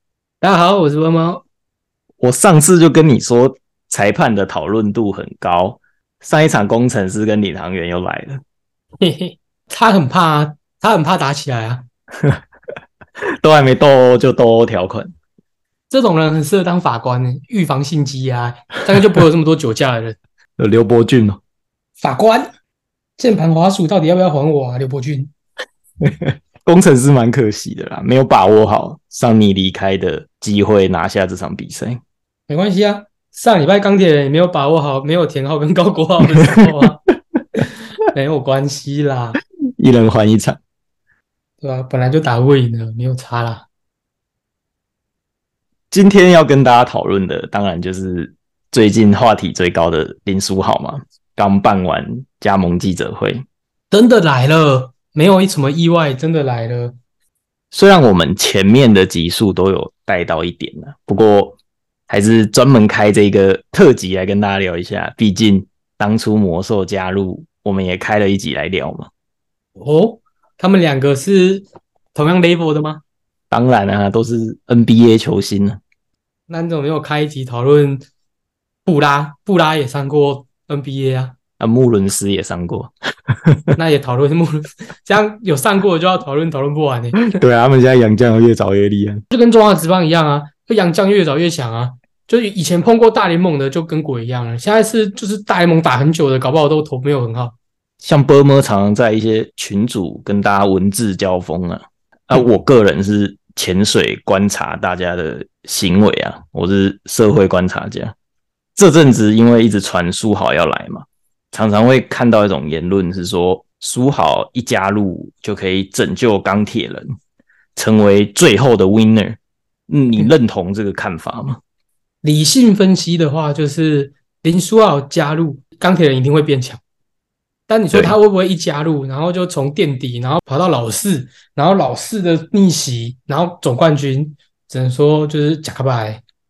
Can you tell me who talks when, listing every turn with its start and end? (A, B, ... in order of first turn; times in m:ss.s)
0:00.4-0:01.4 A
0:02.2-0:08.4 B
0:09.0-0:11.8 A
0:13.4-0:15.1 B
0:15.9-0:20.2 A
0:20.6-0:21.4 B
0:22.0-0:22.5 A
0:23.2-0:25.3 A
0:26.0-0:32.0 B
0:32.5-0:37.0 A
0:38.1-0:39.4 A
0:39.8-0:40.6 B
0:41.6-0:43.6 A
0:45.9-0:53.4 B
0:53.9-0:57.0 A
0:57.7-1:01.6 B
1:02.1-1:09.1 B
1:09.8-1:13.0 A
1:13.5-1:15.8 B
1:16.5-1:18.0 A
1:18.8-1:21.3 A
1:21.6-1:23.8 B
1:23.8-1:27.3 A
1:27.2-1:29.2 B
1:29.3-1:37.5 A
1:38.0-1:48.1 B
1:48.8-1:57.1 B
1:57.8-1:59.4 B
1:59.9-2:01.6 B
2:02.2-2:06.8 A
2:07.7-2:16.2 A